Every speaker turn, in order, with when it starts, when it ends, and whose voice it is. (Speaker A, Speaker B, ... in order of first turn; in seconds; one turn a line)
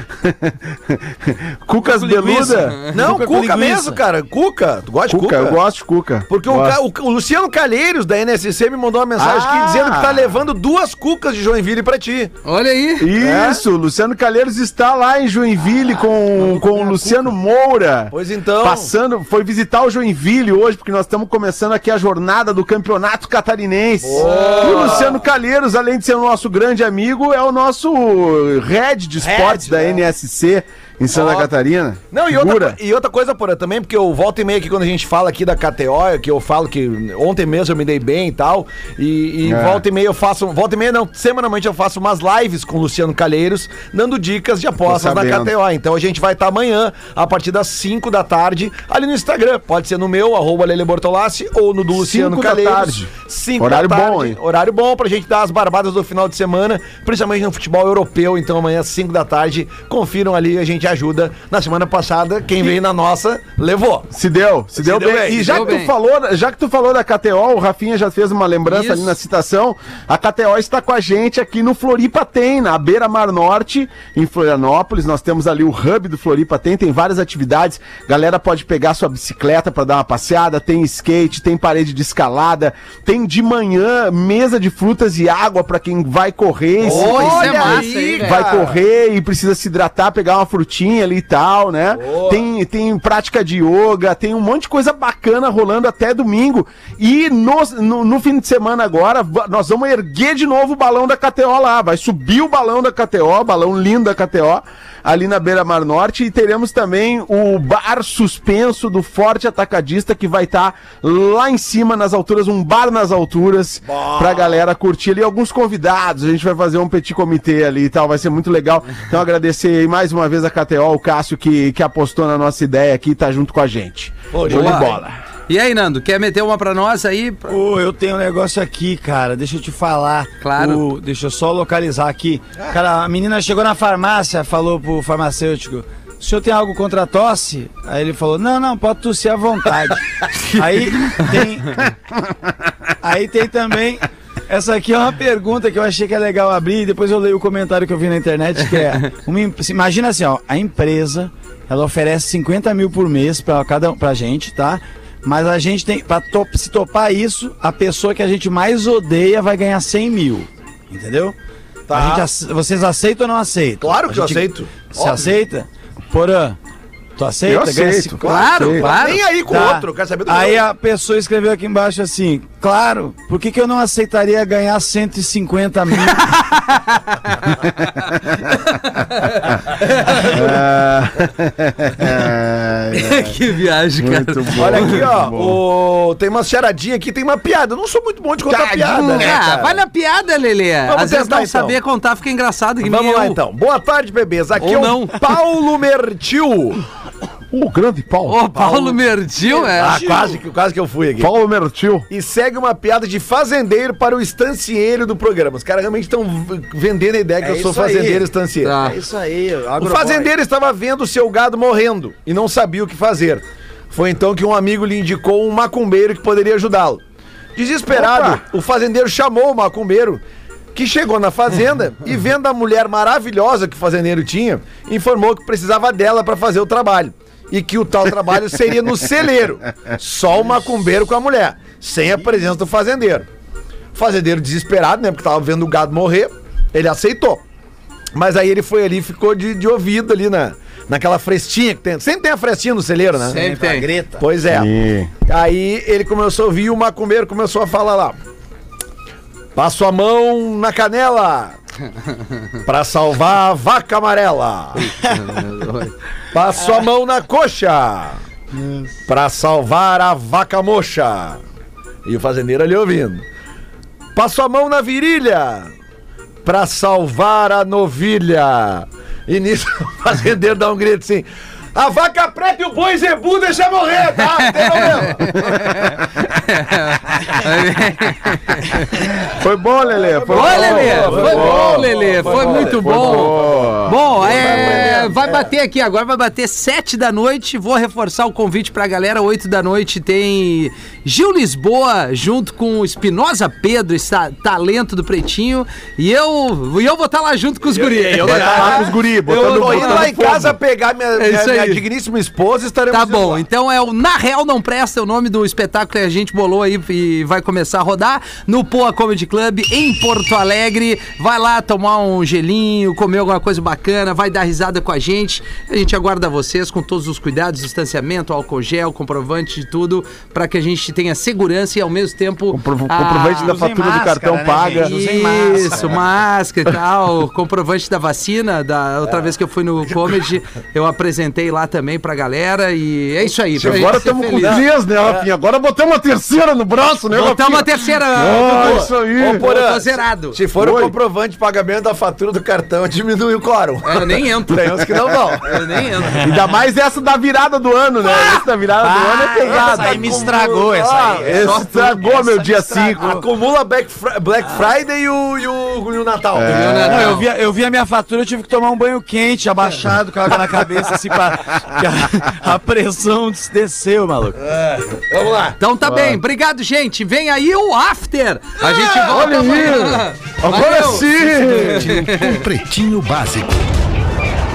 Speaker A: 0.2-2.9
Speaker B: 1.8-4.0
Speaker C: 2.6-3.0
Speaker D: 2.9-5.6
Speaker A: 5.1-6.8
Speaker D: 6.3-12.3
Speaker A: 9.2-10.3
Speaker C: 12.4-13.1
Speaker A: 13.0-32.8
Speaker D: 13.2-13.6
Speaker D: 16.3-17.2
Speaker D: 18.1-18.9
Speaker D: 24.0-25.2
Speaker C: 24.2-25.1
Speaker D: 29.2-30.1
Speaker D: 31.1-31.5
Speaker D: 32.1-64.1
Speaker A: 39.4-39.8
Speaker A: 44.8-45.5
Speaker A: 51.9-54.4
Speaker A: 64.1-125.2
Speaker D: 64.8-65.8
Speaker C: 65.4-65.9
Speaker C: 68.7-69.1
Speaker D: 86.8-88.8
Speaker C: 86.8-88.5
Speaker D: 91.9-92.5
Speaker D: 113.8-114.6
Speaker D: 124.3-125.0
Speaker C: 124.5-124.9
Speaker C: 125.5-127.6
Speaker B: 127.5-141.9
Speaker C: 130.4-130.8
Speaker B: 143.0-161.3
Speaker D: 161.9-162.3
Speaker B: 161.9-166.6
Speaker D: 163.8-165.3
Speaker B: 167.2-168.2
Speaker A: 167.5-168.8
Speaker D: 168.2-170.6
Speaker C: 168.2-169.2
Speaker B: 169.5-176.3
Speaker C: 176.1-177.4
Speaker A: 177.6-178.2
Speaker C: 178.5-180.5
Speaker A: 180.2-183.4
Speaker C: 182.9-185.0
Speaker A: 184.0-185.6
Speaker D: 184.6-189.8
Speaker A: 188.5-189.4
Speaker C: 189.1-193.4
Speaker D: 190.9-191.8
Speaker D: 192.8-196.8
Speaker C: 194.6-195.2
Speaker A: 197.5-198.4
Speaker C: 198.3-200.1
Speaker D: 198.5-201.3
Speaker B: 199.7-200.4
Speaker A: 201.2-202.1
Speaker D: 202.1-208.8
Speaker B: 207.4-210.3
Speaker C: 208.6-209.0
Speaker D: 209.8-217.0
Speaker D: 217.6-220.2
Speaker A: 217.9-218.4
Speaker D: 220.7-233.3
Speaker D: 233.9-237.4
Speaker D: 238.1-243.4
Speaker B: 243.2-244.2
Speaker C: 243.3-243.9
Speaker D: 244.2-244.7
Speaker A: 244.5-245.1
Speaker D: 245.2-248.2
Speaker D: 249.6-251.6
Speaker D: 252.6-254.9
Speaker C: 254.7-255.9
Speaker D: 256.3-258.2
Speaker B: 258.5-258.9
Speaker D: 259.1-261.4
Speaker D: 262.0-263.2
Speaker D: 264.1-265.7
Speaker D: 266.4-275.4
Speaker C: 274.4-279.1
Speaker A: 275.1-276.1
Speaker A: 279.4-284.2
Speaker D: 280.0-285.5
Speaker C: 280.3-300.1
Speaker B: 281.2-281.5
Speaker D: 297.7-303.4
Speaker A: 298.2-300.6
Speaker C: 301.2-301.8
Speaker C: 302.9-323.6
Speaker A: 322.5-324.9
Speaker B: 323.4-326.0
Speaker C: 324.8-334.6
Speaker D: 333.6-335.3
Speaker A: 333.6-339.4
Speaker C: 337.1-340.4
Speaker D: 338.2-345.8
Speaker A: 340.6-340.9
Speaker C: 343.8-346.2
Speaker A: 346.2-350.3
Speaker B: 348.8-351.5
Speaker D: 349.4-351.7
Speaker A: 351.1-353.2
Speaker C: 351.3-352.6
Speaker B: 352.6-353.2
Speaker D: 352.9-356.6
Speaker A: 356.3-357.2
Speaker C: 356.4-357.3
Speaker B: 356.8-364.4
Speaker D: 364.5-365.6
Speaker C: 365.6-372.4
Speaker A: 365.8-366.2
Speaker D: 368.9-369.5
Speaker A: 369.0-372.0
Speaker E: 371.3-373.7